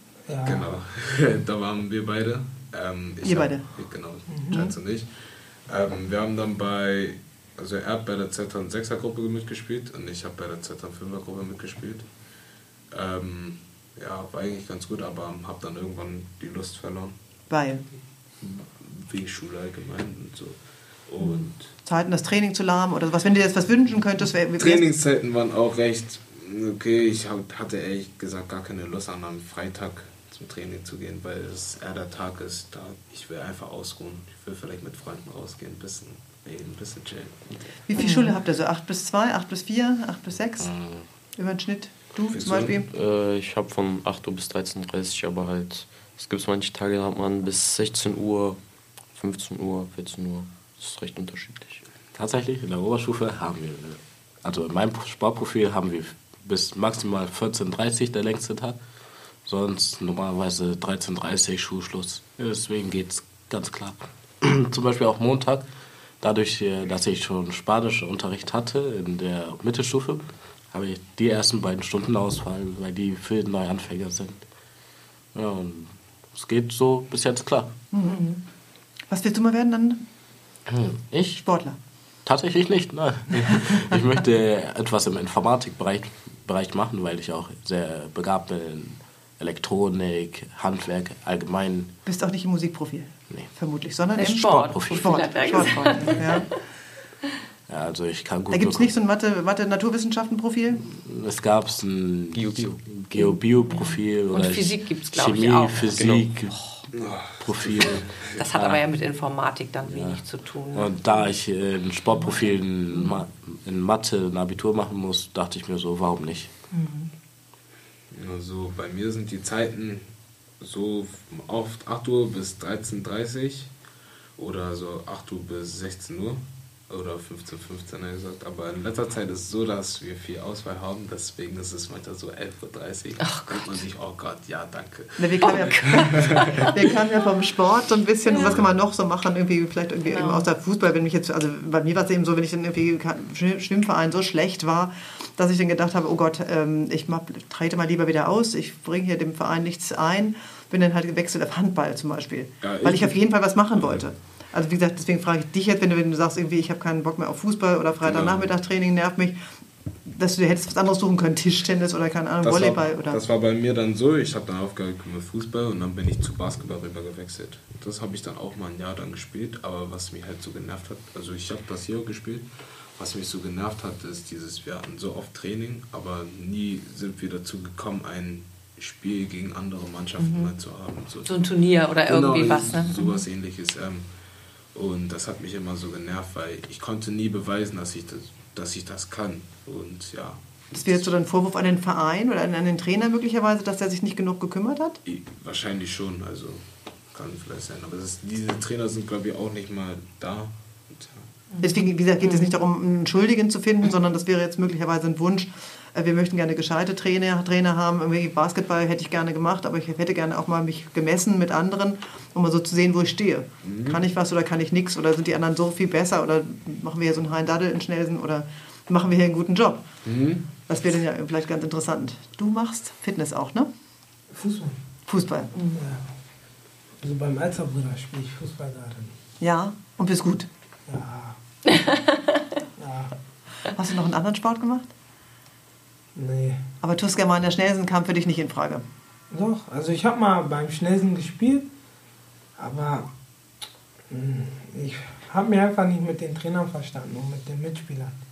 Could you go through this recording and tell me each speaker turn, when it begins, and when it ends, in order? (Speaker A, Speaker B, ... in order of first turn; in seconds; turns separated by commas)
Speaker A: 0.3-0.7, Speaker B: 0.4-5.1, Speaker C: 3.2-3.7, Speaker A: 4.3-4.5, Speaker B: 5.7-12.1, Speaker B: 12.9-17.2, Speaker C: 17.5-17.8, Speaker B: 18.4-21.7, Speaker C: 21.9-24.9, Speaker B: 24.6-37.8, Speaker C: 37.9-40.7, Speaker D: 38.0-38.4, Speaker E: 40.6-41.0, Speaker C: 41.4-42.9, Speaker B: 42.3-42.8, Speaker F: 42.9-48.6, Speaker F: 49.1-51.8, Speaker E: 52.1-58.8, Speaker E: 59.5-65.7, Speaker E: 66.2-74.4, Speaker E: 75.3-77.7, Speaker C: 77.9-78.4, Speaker C: 79.1-80.0, Speaker E: 80.7-81.4, Speaker C: 81.4-81.8, Speaker E: 82.2-91.9, Speaker C: 92.1-96.5, Speaker D: 94.2-96.6, Speaker E: 94.3-95.3, Speaker E: 97.7-99.0, Speaker C: 98.5-100.9, Speaker E: 100.9-106.5, Speaker F: 102.3-102.8, Speaker D: 103.2-106.0, Speaker F: 105.9-106.3, Speaker B: 106.9-108.4, Speaker E: 107.4-108.8, Speaker D: 108.3-111.0, Speaker E: 109.9-110.2, Speaker E: 110.7-116.5, Speaker D: 116.7-117.1, Speaker B: 118.1-120.1, Speaker B: 120.6-123.7, Speaker B: 124.4-136.7, Speaker D: 133.2-133.8, Speaker C: 135.2-159.4, Speaker D: 135.4-136.9, Speaker D: 138.3-138.6, Speaker B: 138.3-138.7, Speaker D: 140.1-140.5, Speaker B: 152.6-153.2, Speaker B: 153.8-154.1, Speaker B: 158.0-158.5, Speaker C: 160.1-163.2, Speaker B: 162.4-181.5, Speaker D: 180.2-180.5, Speaker D: 181.3-183.2, Speaker B: 182.0-184.1, Speaker B: 184.7-191.1, Speaker C: 190.7-195.0, Speaker B: 195.1-201.3, Speaker D: 201.5-202.5, Speaker C: 201.6-219.8, Speaker B: 213.6-214.0, Speaker B: 220.1-220.5, Speaker C: 220.7-223.7, Speaker A: 224.3-224.8, Speaker C: 225.1-225.6, Speaker D: 225.6-225.8, Speaker A: 225.8-226.1, Speaker A: 227.0-229.1, Speaker C: 229.4-230.5, Speaker A: 230.9-231.4, Speaker D: 231.7-232.6, Speaker A: 232.8-233.2, Speaker C: 233.7-234.9, Speaker A: 236.2-236.6, Speaker C: 236.8-238.8, Speaker A: 239.3-241.7, Speaker A: 242.6-243.1, Speaker A: 244.1-248.2